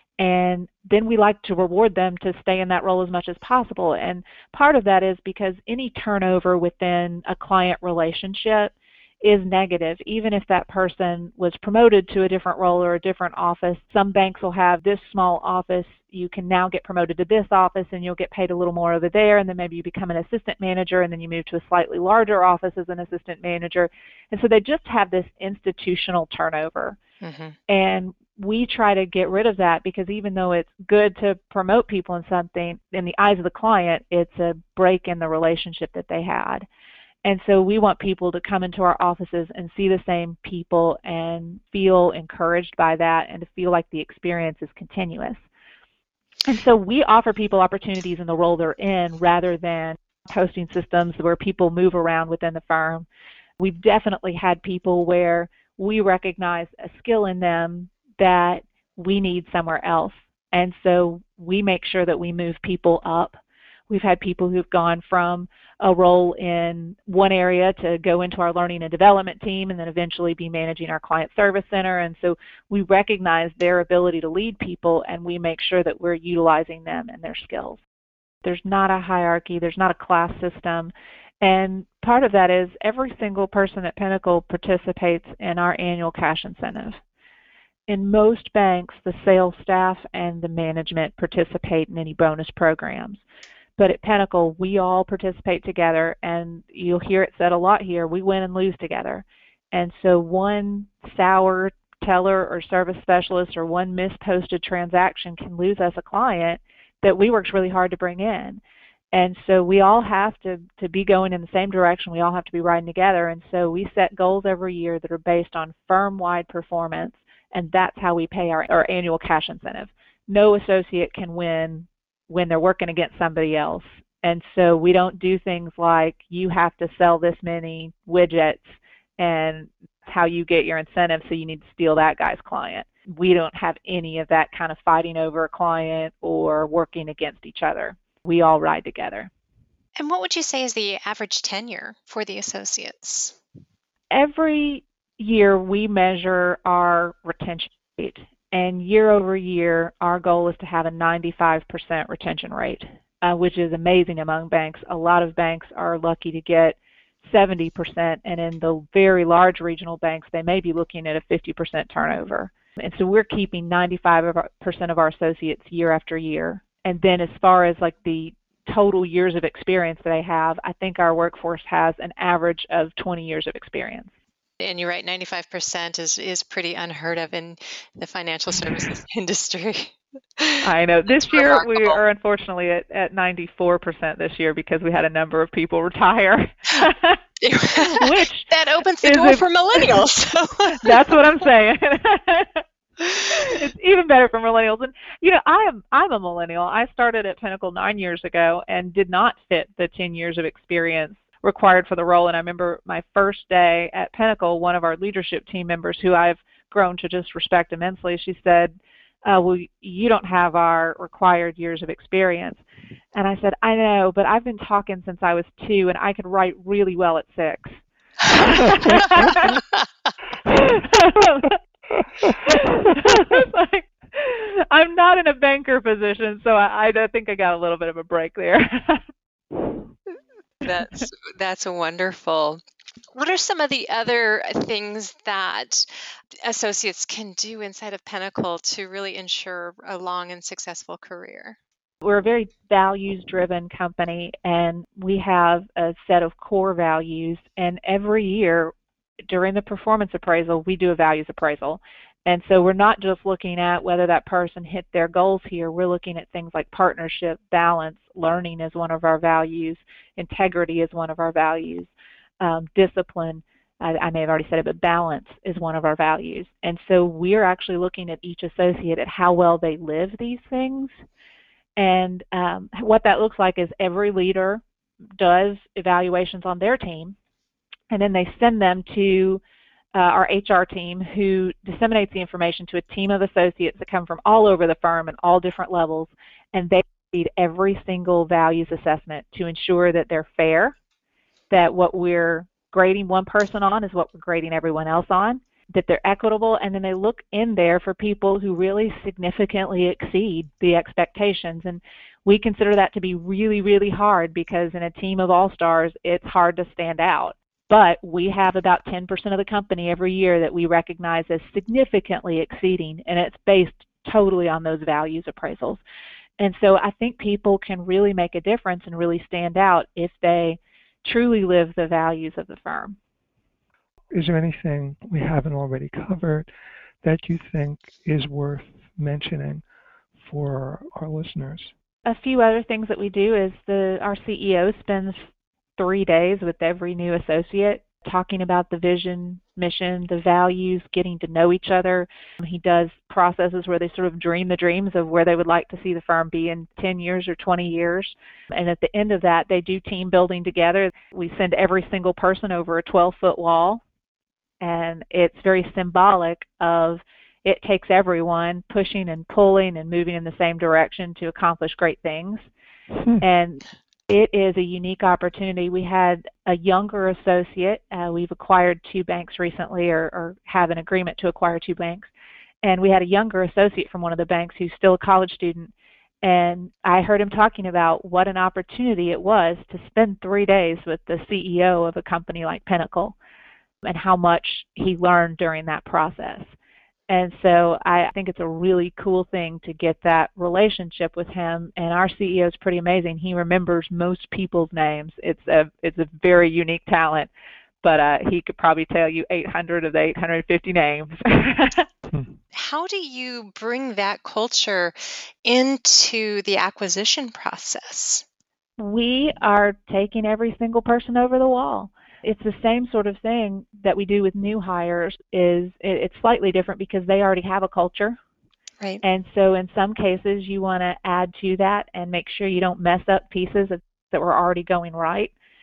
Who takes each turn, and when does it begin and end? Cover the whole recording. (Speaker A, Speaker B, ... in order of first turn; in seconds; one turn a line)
Speaker A: 0.2-27.0
Speaker B: 27.2-27.6
Speaker A: 27.7-36.7
Speaker A: 37.2-45.5
Speaker A: 46.5-53.1
Speaker A: 53.6-77.8
Speaker A: 78.4-87.0
Speaker A: 87.9-93.2
Speaker A: 93.8-108.6
Speaker A: 109.1-139.3
Speaker B: 140.0-143.4
Speaker A: 144.1-174.1
Speaker B: 174.6-182.0
Speaker A: 180.6-187.2
Speaker B: 187.4-191.1
Speaker A: 187.8-190.0
Speaker A: 190.8-212.6
Speaker A: 213.1-219.6
Speaker A: 220.4-221.6
Speaker A: 222.2-229.0
Speaker B: 230.6-232.6
Speaker B: 233.1-235.9
Speaker B: 236.4-241.6
Speaker A: 242.0-248.7
Speaker A: 249.3-270.9
Speaker A: 271.8-274.6
Speaker A: 275.2-277.2
Speaker A: 277.9-279.4
Speaker A: 279.9-290.8
Speaker A: 291.5-315.8
Speaker A: 316.4-323.0
Speaker C: 324.1-326.5
Speaker C: 327.0-329.6
Speaker C: 330.2-331.7
Speaker A: 332.1-353.8
Speaker A: 354.6-362.4
Speaker A: 363.2-372.1
Speaker A: 372.6-375.7
Speaker A: 376.2-383.2
Speaker A: 383.8-386.5
Speaker A: 387.1-397.3
Speaker A: 397.8-401.9
Speaker C: 402.1-402.4
Speaker B: 402.5-408.2
Speaker A: 408.8-418.2
Speaker A: 419.0-425.3